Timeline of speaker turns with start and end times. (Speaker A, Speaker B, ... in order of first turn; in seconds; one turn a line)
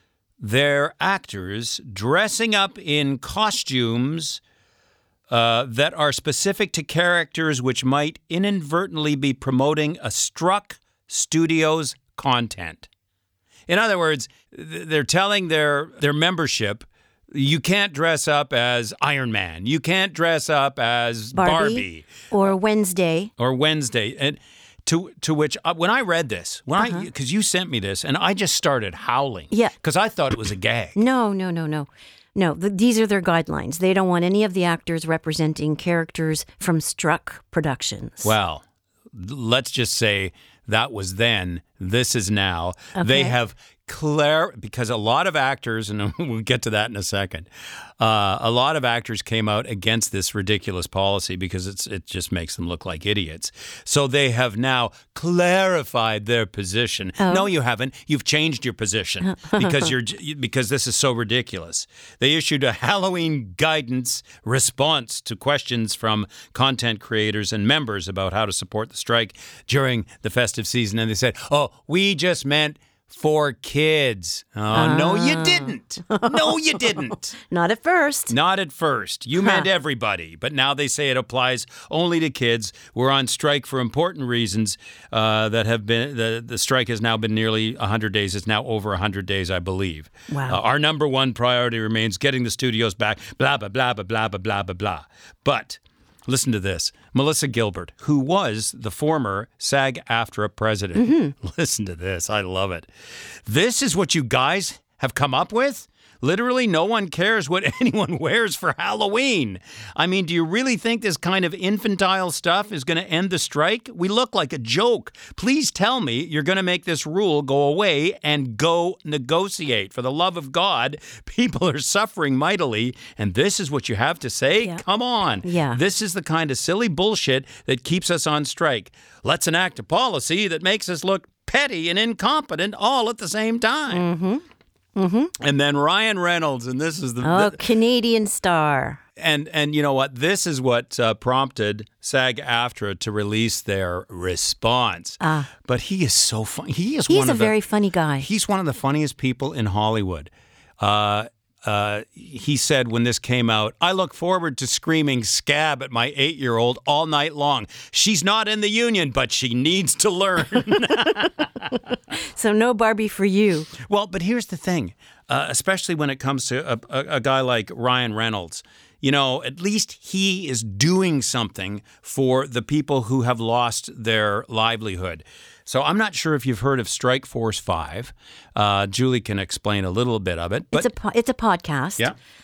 Speaker A: 0.4-4.4
Speaker A: 5.3-12.9
Speaker A: 13.7-22.3
Speaker B: 21.4-23.3
Speaker A: 23.4-31.0
Speaker B: 26.8-27.1
Speaker B: 31.0-38.4
Speaker A: 38.2-47.5
Speaker B: 43.0-43.4
Speaker A: 48.0-77.4
Speaker B: 57.2-57.5
Speaker B: 59.2-59.9
Speaker B: 74.7-78.3
Speaker A: 78.3-134.1
Speaker B: 79.4-79.7
Speaker B: 90.3-90.6
Speaker B: 101.0-101.3
Speaker B: 125.4-125.8
Speaker B: 133.9-134.4
Speaker B: 135.0-135.3
Speaker A: 135.4-137.6
Speaker B: 137.2-139.0
Speaker A: 139.2-147.5
Speaker B: 145.2-145.5
Speaker B: 147.1-148.3
Speaker A: 148.2-161.8
Speaker B: 160.9-163.7
Speaker A: 163.7-180.9
Speaker B: 180.7-182.1